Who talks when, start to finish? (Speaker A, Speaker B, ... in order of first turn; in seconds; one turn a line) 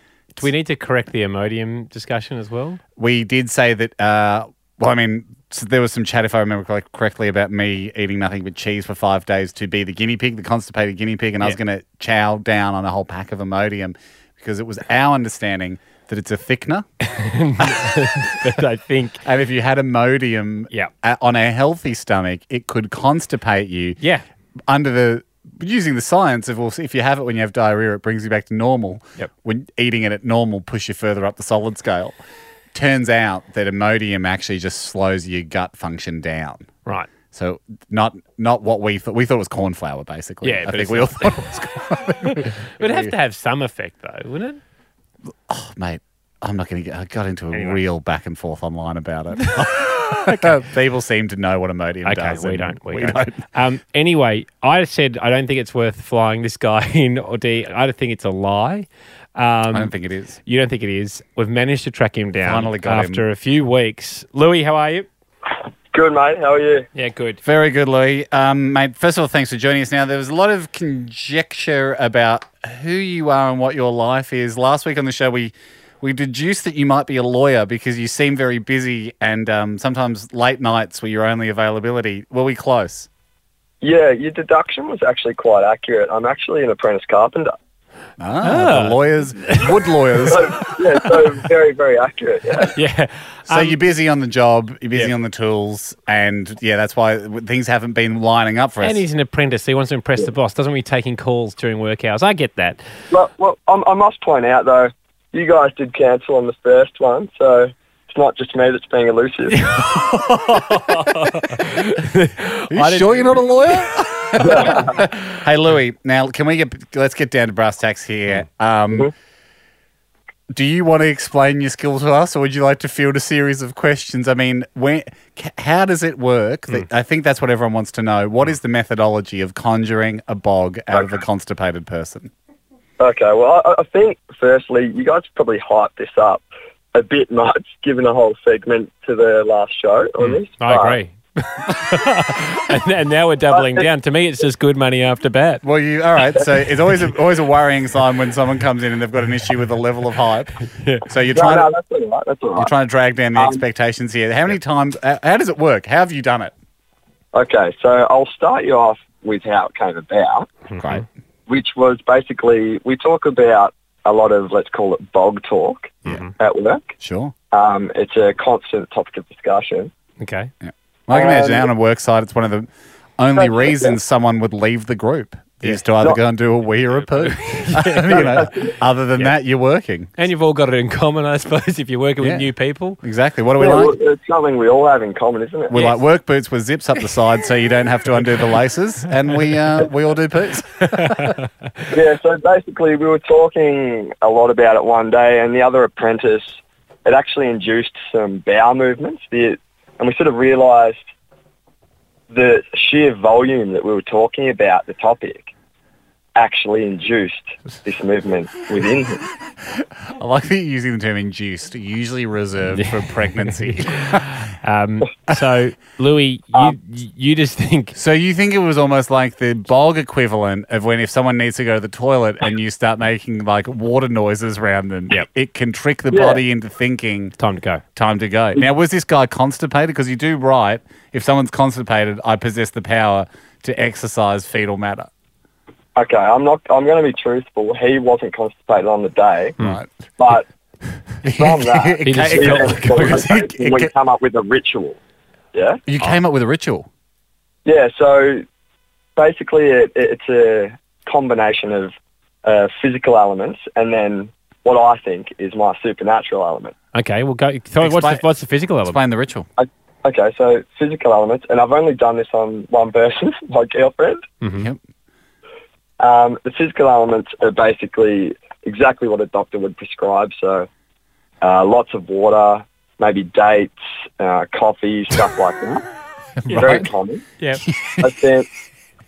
Speaker A: 0.3-2.8
Speaker B: 3.0-16.9
Speaker A: 17.0-19.2
Speaker B: 17.6-17.8
Speaker B: 19.2-24.0
Speaker B: 24.7-32.1
Speaker B: 32.7-36.7
Speaker B: 37.3-43.1
Speaker A: 40.4-41.5
Speaker A: 42.2-44.6
Speaker B: 45.5-53.4
Speaker A: 47.5-47.8
Speaker A: 49.4-50.5
Speaker A: 52.0-59.9
Speaker B: 59.7-60.4
Speaker A: 60.4-65.1
Speaker B: 62.4-63.2
Speaker C: 65.9-66.8
Speaker A: 66.9-67.4
Speaker B: 67.4-83.1
Speaker C: 83.8-87.5
Speaker B: 88.2-90.5
Speaker A: 88.4-90.4
Speaker C: 90.2-92.8
Speaker A: 92.7-93.8
Speaker B: 93.5-99.0
Speaker A: 98.8-102.8
Speaker C: 103.1-109.6
Speaker A: 109.5-115.1
Speaker B: 112.7-119.1
Speaker C: 114.4-115.0
Speaker B: 120.5-132.3
Speaker C: 130.9-131.2
Speaker C: 133.0-141.0
Speaker A: 140.2-145.6
Speaker C: 143.5-143.9
Speaker B: 145.6-151.7
Speaker A: 150.7-151.1
Speaker C: 151.3-152.7
Speaker B: 152.6-156.5
Speaker C: 153.4-153.6
Speaker C: 157.3-160.6
Speaker A: 160.7-161.0
Speaker B: 160.8-161.0
Speaker C: 161.5-166.9
Speaker A: 166.1-166.3
Speaker B: 167.0-167.3
Speaker C: 167.5-169.9
Speaker A: 170.2-170.5
Speaker B: 170.6-180.1
Speaker C: 171.1-171.7
Speaker C: 173.3-174.0
Speaker A: 177.2-178.5
Speaker C: 178.1-178.7
Speaker A: 180.2-183.0
Speaker B: 182.2-184.0
Speaker C: 183.6-185.8
Speaker B: 185.7-191.4
Speaker A: 185.7-186.0
Speaker A: 190.8-191.5
Speaker C: 191.9-201.0
Speaker C: 202.3-205.5
Speaker C: 206.3-209.2
Speaker B: 210.1-214.4
Speaker A: 212.7-217.9
Speaker B: 217.9-227.3
Speaker C: 226.1-226.4
Speaker A: 227.4-227.8
Speaker B: 227.9-235.1
Speaker C: 235.9-239.6
Speaker B: 239.6-239.9
Speaker C: 240.2-240.4
Speaker B: 241.2-243.9
Speaker C: 241.3-245.0
Speaker A: 242.0-243.3
Speaker C: 245.5-245.8
Speaker B: 245.8-246.9
Speaker C: 247.6-248.4
Speaker C: 249.2-251.9
Speaker C: 252.4-256.7
Speaker A: 256.9-259.0
Speaker B: 257.8-259.5
Speaker C: 259.6-264.3
Speaker A: 264.4-264.7
Speaker C: 266.0-270.7
Speaker C: 271.4-275.8
Speaker B: 276.4-276.9
Speaker A: 276.5-276.9
Speaker C: 276.5-277.2
Speaker B: 277.6-278.1
Speaker C: 278.0-278.5